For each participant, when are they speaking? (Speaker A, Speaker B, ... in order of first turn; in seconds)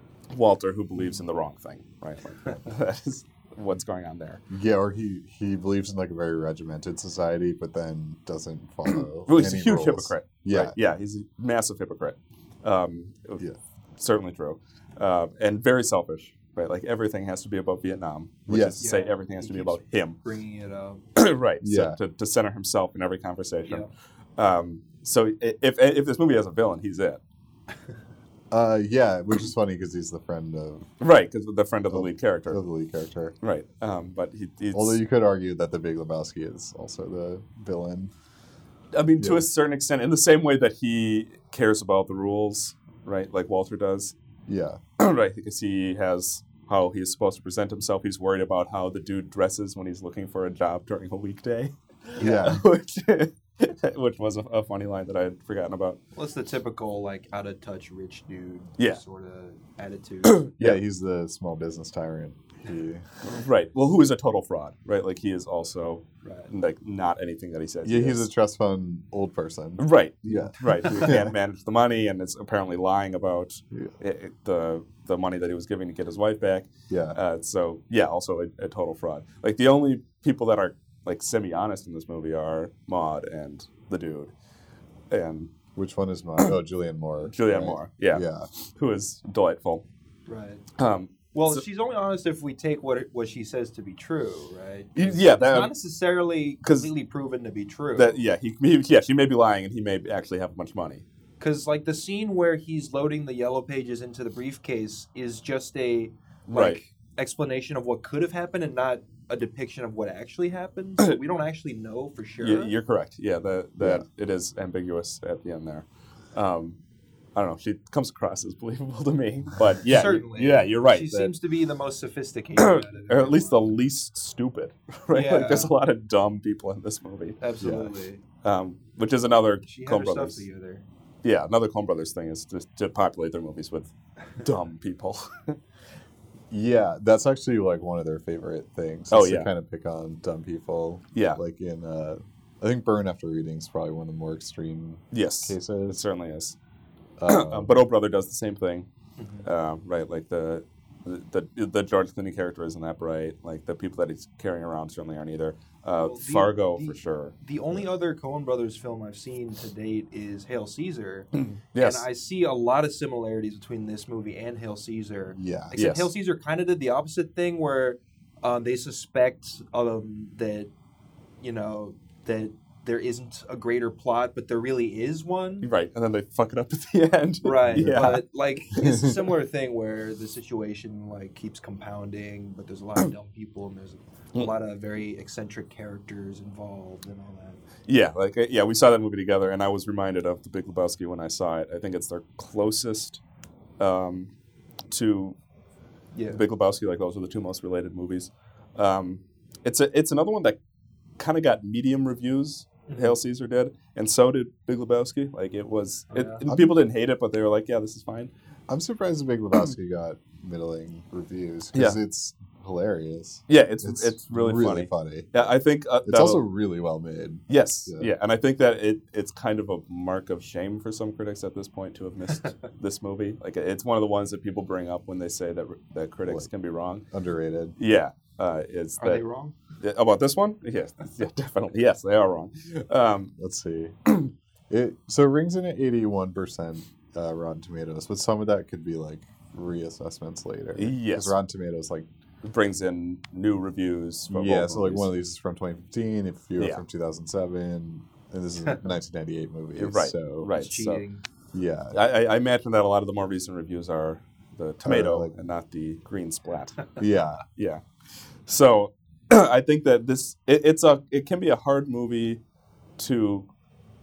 Speaker A: 0.3-4.4, 9.2-13.4, 14.0-20.2, 21.2-27.2, 31.0-32.6, 33.4-35.0, 38.9-44.1, 45.0-56.0, 60.2-60.8, 63.2-68.3, 69.8-84.3, 85.1-85.5, 87.3-89.8, 90.8-91.6, 95.0-95.7, 96.6-96.9, 98.0-101.0, 106.5-106.8, 112.4-116.8, 117.3-121.3, 122.6-127.4, 128.4-130.4, 131.2-135.6, 139.1-139.5, 141.1-141.4, 145.1-146.6, 147.3-148.9, 149.4-157.3, 161.3-162.1, 165.8-166.1, 175.6-178.2, 187.9-193.2, 193.8-194.3, 194.9-195.4, 196.3-200.6, 201.2-208.3, 211.7-212.0, 213.5-216.4, 217.5-227.1, 227.8-229.2, 229.8-233.3, 240.8-241.3, 242.4-245.1, 246.6-246.8, 249.8-251.0, 251.9-257.0, 257.6-257.8, 258.5-262.4, 263.0-263.5
Speaker B: 4.5-10.8, 18.5-18.8, 21.6-22.0, 28.5-30.9, 31.9-33.4, 34.7-38.1, 39.2-39.5, 44.5-44.8, 52.2-52.6, 60.6-63.1, 67.8-71.3, 76.9-77.2, 85.8-88.5, 113.8-114.0, 127.6-127.9, 136.5-146.0, 147.2-147.8, 165.3-165.8, 177.7-178.0, 206.5-206.8, 208.7-215.5, 216.0-218.1, 227.1-227.8, 233.4-234.0, 234.7-242.1, 244.3-250.5, 251.5-252.0, 254.8-255.3, 257.0-257.4
Speaker C: 18.8-21.0, 52.2-52.6, 56.2-60.4, 66.2-66.5, 90.3-90.6, 91.3-98.2, 101.4-112.7, 119.8-123.7, 125.1-125.7, 127.4-128.2, 129.7-130.8, 149.2-149.5, 156.0-170.7, 171.4-175.7, 177.4-187.6, 196.1-196.4, 202.9-203.2, 206.1-206.4, 229.0-229.5, 250.5-251.2